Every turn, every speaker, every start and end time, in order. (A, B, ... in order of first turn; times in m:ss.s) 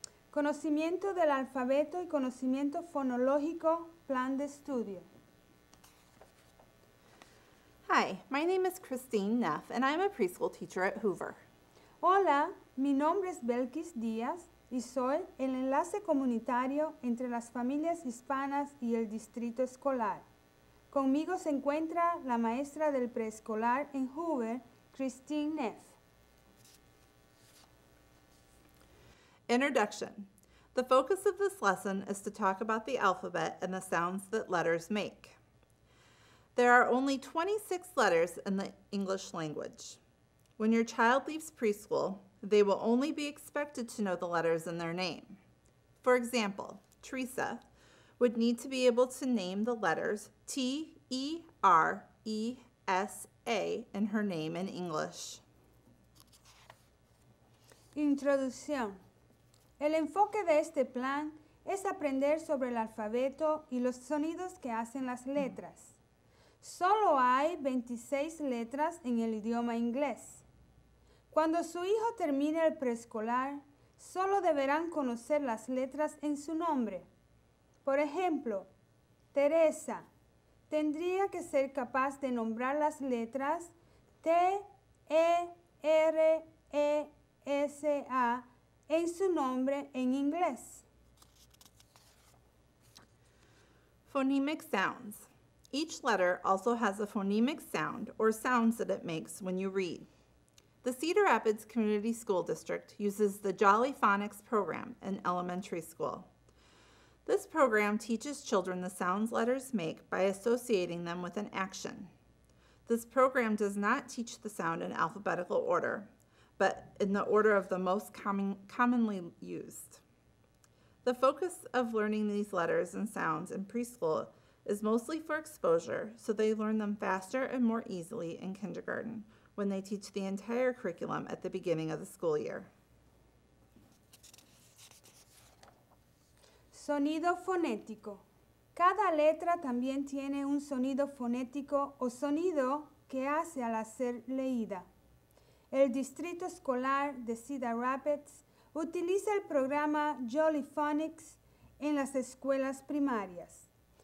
0:00.3-0:05.1 A
0:07.9-0:11.4 B
0:12.0-0:20.3 A
0:20.9-0:26.0 A
0:29.5-0:35.4 B
0:36.6-0:40.0 B
0:40.6-0:45.4 B
0:46.0-0:47.6 B
0:48.2-0:55.4 B
0:57.9-0:59.0 A
0:59.8-1:06.0 A
1:06.6-1:10.4 A
1:11.3-1:17.1 A
1:17.8-1:18.7 A
1:19.3-1:20.1 A
1:20.7-1:30.9 A
1:34.1-1:40.1 B
1:40.8-1:46.3 B
1:47.3-1:52.1 B
1:52.9-2:00.0 B
2:01.0-2:12.7 B
2:16.7-2:24.9 A
2:25.7-2:33.7 A